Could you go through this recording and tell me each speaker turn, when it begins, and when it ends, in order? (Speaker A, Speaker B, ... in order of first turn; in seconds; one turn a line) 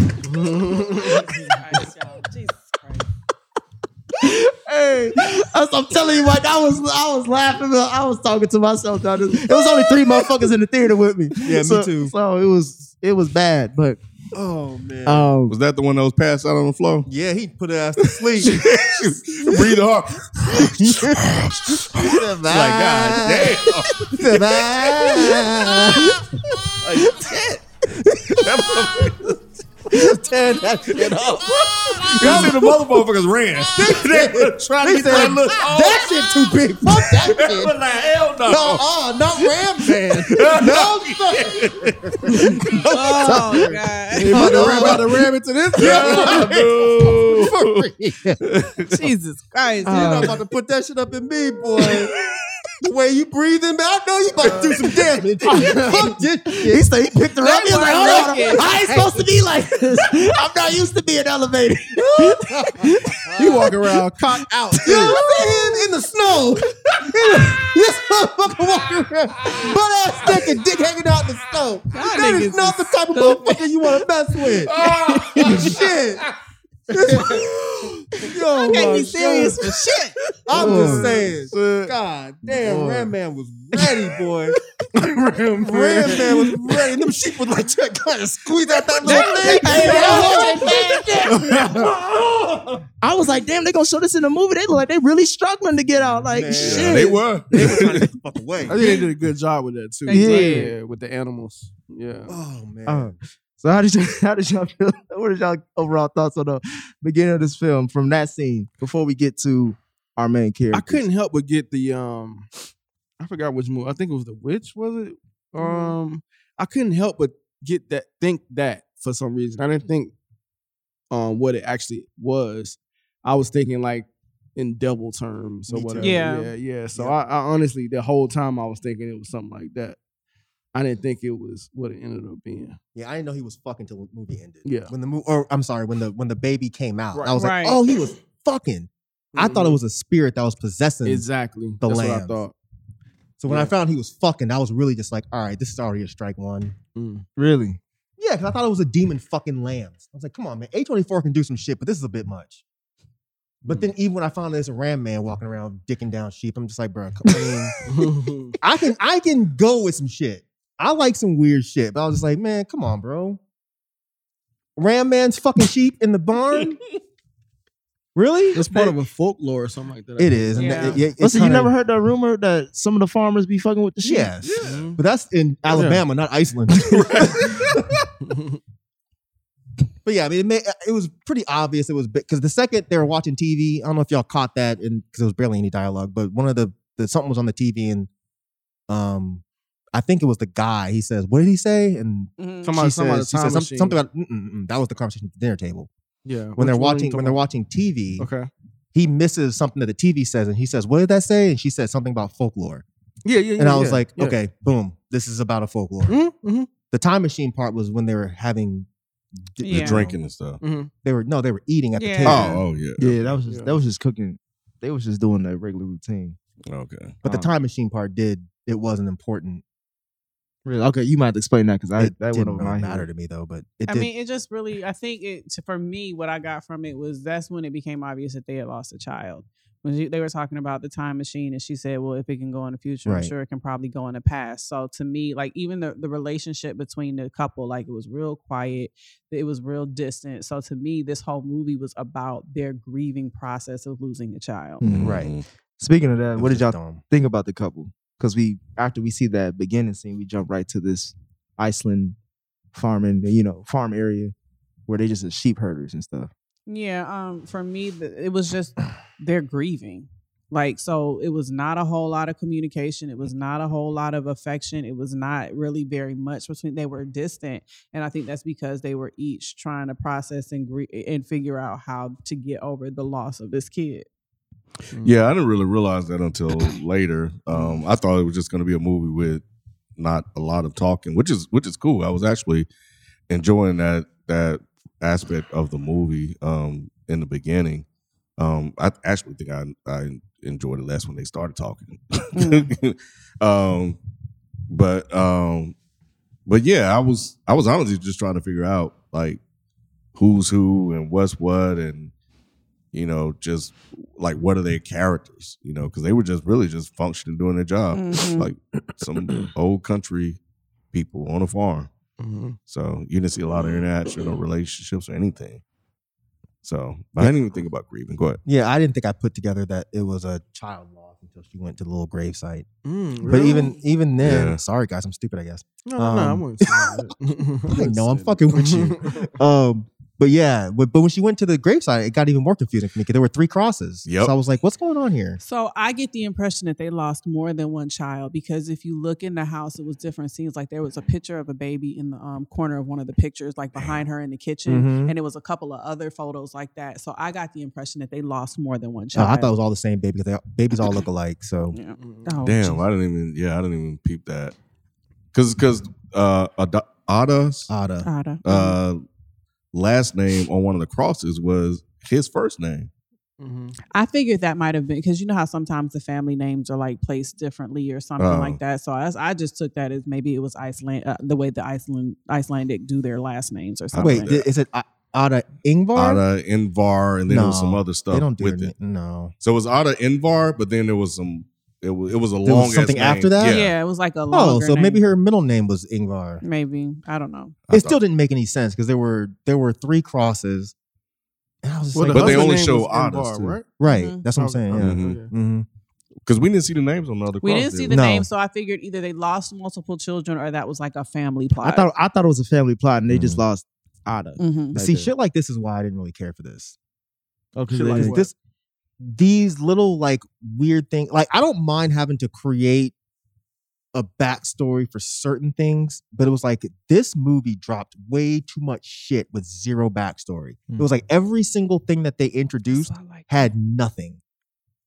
Speaker A: 0.2-1.5
Speaker B: 1.5-3.1
Speaker C: 4.2-14.0
Speaker D: 11.4-12.1
Speaker D: 14.3-15.3
Speaker C: 15.1-15.6
Speaker E: 15.5-17.1
Speaker D: 17.1-19.7
Speaker E: 18.5-24.1
Speaker D: 20.6-27.6
Speaker E: 26.9-27.2
Speaker D: 28.2-29.1
Speaker E: 28.4-29.2
Speaker D: 29.9-32.6
Speaker E: 30.9-31.5
Speaker E: 32.1-38.8
Speaker C: 32.2-32.6
Speaker D: 33.6-37.7
Speaker C: 35.0-35.4
Speaker D: 38.5-43.8
Speaker E: 39.4-42.8
Speaker B: 42.9-44.7
Speaker A: 43.3-43.6
Speaker A: 44.1-46.5
Speaker D: 44.3-48.4
Speaker C: 44.5-44.9
Speaker E: 45.8-47.8
Speaker E: 48.4-49.0
Speaker B: 48.9-50.3
Speaker C: 49.9-50.4
Speaker D: 49.9-52.1
Speaker D: 52.8-56.8
Speaker A: 54.4-54.7
Speaker A: 55.5-56.1
Speaker C: 56.6-63.7
Speaker B: 57.4-58.7
Speaker D: 58.6-59.2
Speaker D: 62.1-63.6
Speaker A: 63.4-65.2
Speaker C: 64.7-65.8
Speaker D: 64.8-74.8
Speaker B: 71.9-73.6
Speaker E: 74.7-75.7
Speaker C: 74.9-75.8
Speaker D: 75.5-76.2
Speaker D: 76.9-77.5
Speaker D: 78.2-79.6
Speaker B: 78.7-80.1
Speaker C: 78.7-79.0
Speaker D: 80.5-84.6
Speaker A: 80.5-81.9
Speaker C: 80.5-81.3
Speaker C: 82.6-83.1
Speaker A: 85.0-86.5
Speaker D: 85.6-92.8
Speaker C: 89.0-91.3
Speaker B: 89.0-91.1
Speaker A: 91.3-91.9
Speaker C: 93.0-97.2
Speaker D: 96.2-98.9
Speaker E: 96.5-97.9
Speaker A: 97.6-97.9
Speaker A: 98.6-102.4
Speaker B: 100.1-100.8
Speaker C: 100.1-100.7
Speaker D: 102.3-103.2
Speaker C: 102.9-111.0
Speaker A: 110.7-112.5
Speaker A: 113.2-120.1
Speaker B: 115.6-116.0
Speaker A: 121.1-130.0
Speaker D: 125.7-126.2
Speaker B: 126.0-126.5
Speaker A: 130.7-132.8
Speaker D: 132.9-141.3
Speaker A: 134.6-134.9
Speaker A: 137.1-137.5
Speaker B: 137.3-137.8
Speaker A: 139.3-139.8
Speaker A: 141.1-142.6
Speaker D: 141.8-142.4
Speaker D: 143.4-146.8
Speaker A: 143.5-143.7
Speaker A: 146.9-147.3
Speaker C: 147.4-147.8
Speaker D: 148.2-152.6
Speaker D: 153.7-158.1
Speaker A: 157.8-158.6
Speaker D: 158.6-163.4
Speaker D: 164.8-166.8
Speaker D: 168.2-169.0
Speaker A: 168.5-171.1
Speaker D: 170.2-171.7
Speaker B: 170.6-171.0
Speaker C: 171.2-174.3
Speaker D: 174.0-178.1
Speaker E: 174.4-174.8
Speaker A: 174.6-175.0
Speaker A: 175.7-176.0
Speaker A: 178.2-178.6
Speaker D: 180.0-188.1
Speaker D: 188.9-189.4
Speaker D: 189.9-195.9
Speaker B: 192.4-192.8
Speaker A: 192.6-194.0
Speaker A: 196.2-197.4
Speaker D: 196.6-198.3
Speaker A: 198.2-198.5
Speaker D: 198.9-202.8
Speaker A: 203.2-204.4
Speaker D: 203.6-206.2
Speaker A: 206.1-206.7
Speaker D: 206.9-208.9
Speaker D: 209.6-210.2
Speaker B: 209.6-210.1
Speaker E: 209.7-210.6
Speaker A: 210.6-210.9
Speaker D: 211.0-212.6
Speaker B: 212.0-212.7
Speaker E: 212.2-213.3
Speaker C: 213.0-216.4
Speaker A: 213.5-213.8
Speaker E: 216.7-217.2
Speaker D: 217.2-219.6
Speaker C: 220.7-223.1
Speaker D: 222.0-224.1
Speaker B: 223.9-244.8
Speaker D: 233.1-233.3
Speaker C: 244.8-245.2
Speaker E: 244.9-245.4
Speaker D: 245.0-245.3
Speaker C: 245.8-252.2
Speaker D: 246.4-247.0
Speaker C: 252.7-254.3
Speaker C: 254.9-256.3
Speaker B: 256.7-274.1
Speaker E: 275.0-279.4
Speaker A: 277.5-277.8
Speaker E: 280.0-282.7
Speaker E: 283.3-287.9
Speaker E: 288.4-294.0
Speaker B: 292.4-292.7
Speaker E: 294.7-295.8
Speaker E: 296.5-299.4
Speaker E: 300.1-302.1
Speaker E: 302.9-310.4
Speaker B: 307.9-308.5
Speaker E: 310.9-311.9
Speaker A: 312.2-312.6
Speaker E: 312.7-315.6
Speaker E: 316.6-318.4
Speaker D: 318.4-322.7
Speaker A: 322.9-323.8
Speaker D: 323.2-327.1
Speaker E: 324.2-324.6
Speaker A: 325.8-329.3
Speaker D: 327.7-335.4
Speaker E: 334.1-334.4
Speaker B: 335.4-349.5
Speaker E: 343.8-344.0
Speaker D: 344.7-345.1
Speaker D: 349.1-351.8
Speaker B: 351.7-352.8
Speaker A: 352.0-352.4
Speaker E: 352.4-354.6
Speaker E: 355.3-357.7
Speaker D: 357.7-358.1
Speaker B: 358.0-358.8
Speaker E: 358.4-359.0
Speaker E: 359.7-362.9
Speaker A: 363.4-363.8
Speaker B: 363.9-374.3
Speaker E: 368.2-368.6
Speaker E: 373.9-374.5
Speaker D: 374.0-376.2
Speaker E: 375.9-378.7
Speaker D: 377.3-379.3
Speaker E: 379.4-383.7
Speaker D: 382.4-383.6
Speaker B: 383.4-385.0
Speaker D: 384.3-386.4
Speaker B: 386.4-387.6
Speaker E: 387.7-388.0
Speaker D: 387.7-390.7
Speaker D: 391.6-392.6
Speaker A: 391.9-393.8
Speaker E: 392.1-393.6
Speaker D: 393.8-395.7
Speaker B: 393.9-394.2
Speaker A: 394.4-395.3
Speaker E: 394.8-395.2
Speaker E: 396.2-398.0
Speaker B: 397.4-401.9
Speaker D: 397.9-398.3
Speaker C: 401.6-405.1
Speaker D: 403.1-403.4
Speaker B: 404.4-404.8
Speaker D: 404.8-406.8
Speaker C: 407.6-408.2
Speaker A: 407.7-408.3
Speaker D: 407.8-408.3
Speaker D: 409.0-412.9
Speaker D: 413.9-424.2
Speaker B: 422.7-423.3